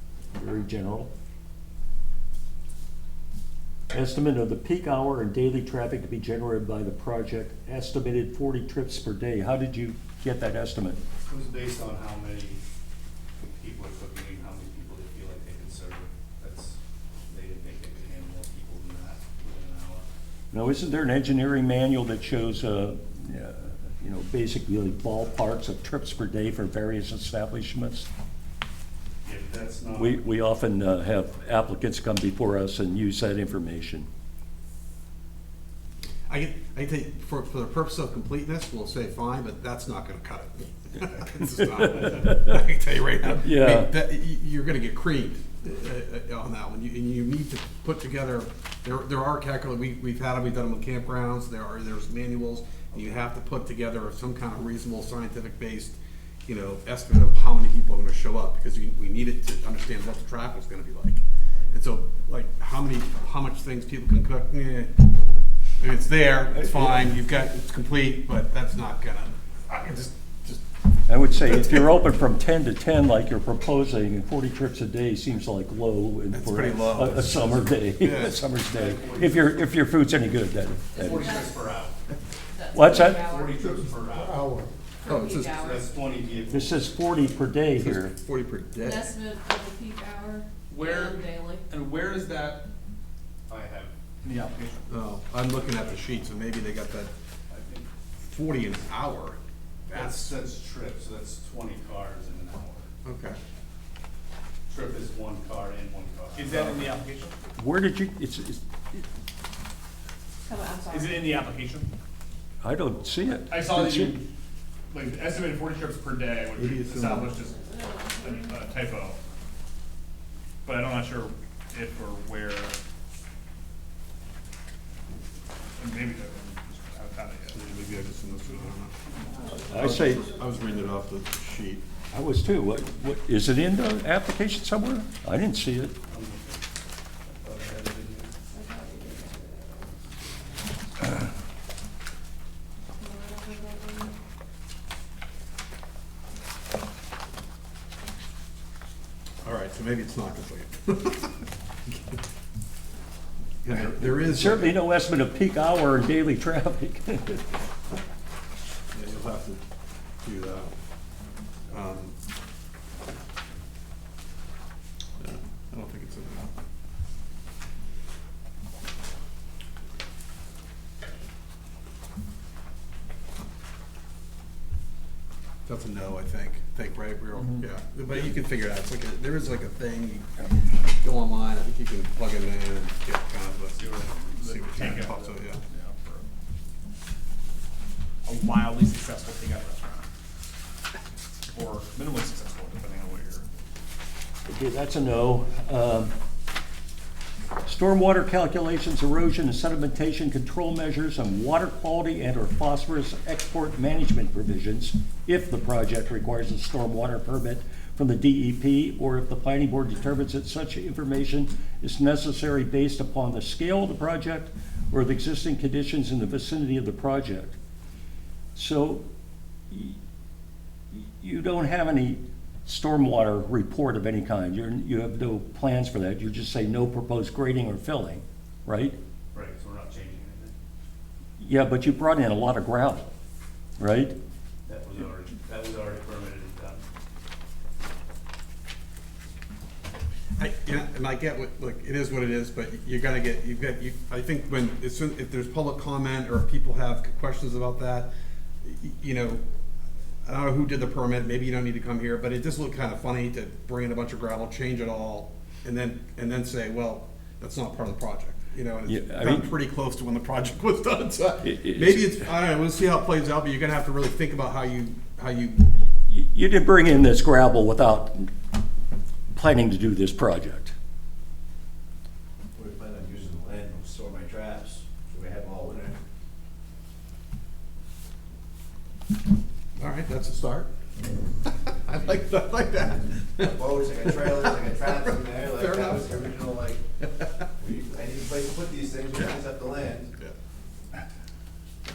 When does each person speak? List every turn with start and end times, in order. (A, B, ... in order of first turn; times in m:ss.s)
0:00.4-0:01.1 A
0:03.9-0:11.0 A
0:11.2-0:12.6 B
0:13.4-0:20.0 B
0:20.5-0:28.1 A
0:29.2-0:30.2 B
0:30.0-0:34.1 A
0:36.3-1:04.9 C
0:43.4-0:43.9 A
1:05.8-1:10.6 C
1:11.1-1:21.3 A
1:11.5-1:11.8 C
1:16.3-1:18.4 C
1:18.7-1:19.4 B
1:21.0-1:22.0 B
1:21.0-1:21.6 D
1:22.5-1:23.6 D
1:22.7-1:23.3 A
1:23.1-1:24.6 B
1:25.0-1:25.9 D
1:25.0-1:25.7 C
1:25.5-1:27.4 B
1:26.5-1:28.1 A
1:27.8-1:29.2 C
1:28.8-1:31.7 D
1:30.7-1:32.7 E
1:33.5-1:33.9 B
1:34.2-1:35.0 E
1:34.9-1:37.1 C
1:35.5-1:36.3 B
1:37.5-1:37.9 B
1:38.2-1:40.4 C
1:39.9-1:42.9 B
1:43.0-1:43.4 C
1:44.7-1:46.8 B
1:46.3-1:47.4 E
1:47.6-1:49.0 A
1:50.5-1:51.4 D
1:50.9-1:51.9 E
1:52.6-1:54.2 A
1:53.5-1:54.2 E
1:54.9-1:59.2 E
1:56.6-1:57.4 C
1:57.5-1:58.6 D
2:00.7-2:02.8 E
2:05.8-2:07.7 E
2:07.5-2:08.9 C
2:09.4-2:10.3 D
2:09.6-2:11.8 C
2:09.7-2:10.2 A
2:12.1-2:16.0 A
2:16.1-2:16.6 B
2:17.2-2:18.3 B
2:18.5-2:19.9 D
2:23.0-2:24.1 D
2:29.4-2:32.2 C
2:33.6-2:34.8 C
2:33.7-2:37.5 A
2:38.9-2:39.6 C
2:40.2-2:40.7 C
2:41.7-2:42.1 C
2:45.2-2:46.5 C
2:55.7-3:05.6 C
2:57.4-2:57.7 E
3:03.8-3:06.3 E
3:08.2-3:10.1 E
3:11.5-3:13.5 E
3:14.5-3:16.1 A
3:17.6-3:37.6 A
3:38.6-3:39.0 A
3:39.7-3:40.0 A
3:40.9-3:49.0 A
3:49.3-3:50.5 B
3:51.4-3:53.1 A
3:53.8-3:54.2 A
3:54.7-3:56.8 B
4:00.4-4:08.1 C
4:08.6-4:09.4 C
4:10.2-4:25.7 C
4:18.9-4:19.5 A
4:21.4-4:22.2 A
4:26.1-4:28.3 A
4:29.3-4:30.7 A
4:32.6-4:36.0 F
4:39.8-4:40.7 C
4:41.4-4:44.6 C
4:43.4-4:46.8 F
4:45.6-4:46.0 C
4:47.6-4:50.2 F